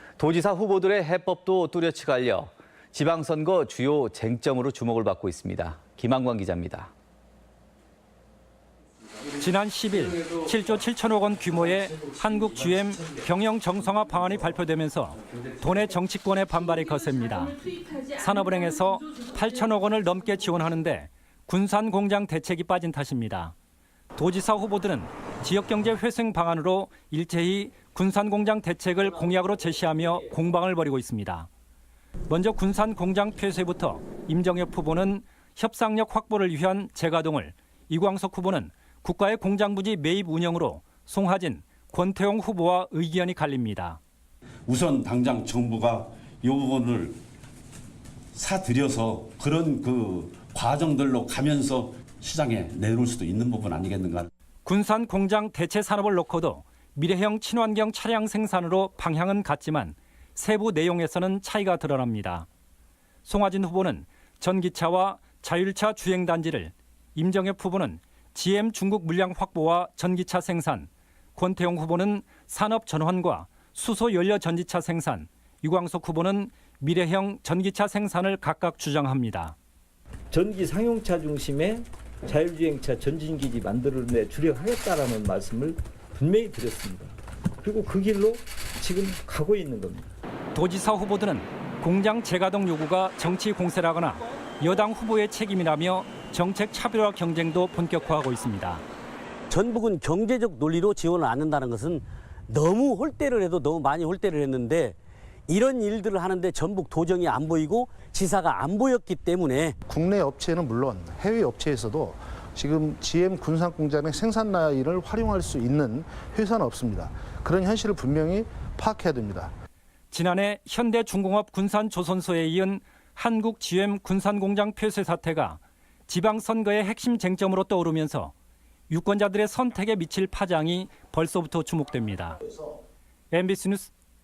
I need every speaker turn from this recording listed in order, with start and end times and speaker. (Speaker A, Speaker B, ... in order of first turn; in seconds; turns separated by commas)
Speaker A: 0.2-6.9, Speaker B: 9.4-17.6, Speaker B: 18.1-23.5, Speaker B: 24.1-31.5, Speaker B: 32.3-44.0, Speaker C: 44.7-47.1, Speaker C: 48.3-54.3, Speaker B: 54.6-62.5, Speaker B: 63.2-79.5, Speaker D: 80.3-90.1, Speaker B: 90.5-98.8, Speaker E: 99.5-105.0, Speaker E: 105.5-109.8, Speaker F: 109.9-119.5, Speaker B: 120.1-128.3, Speaker B: 128.9-132.4, Speaker F: 132.5-132.8, Speaker B: 133.3-133.9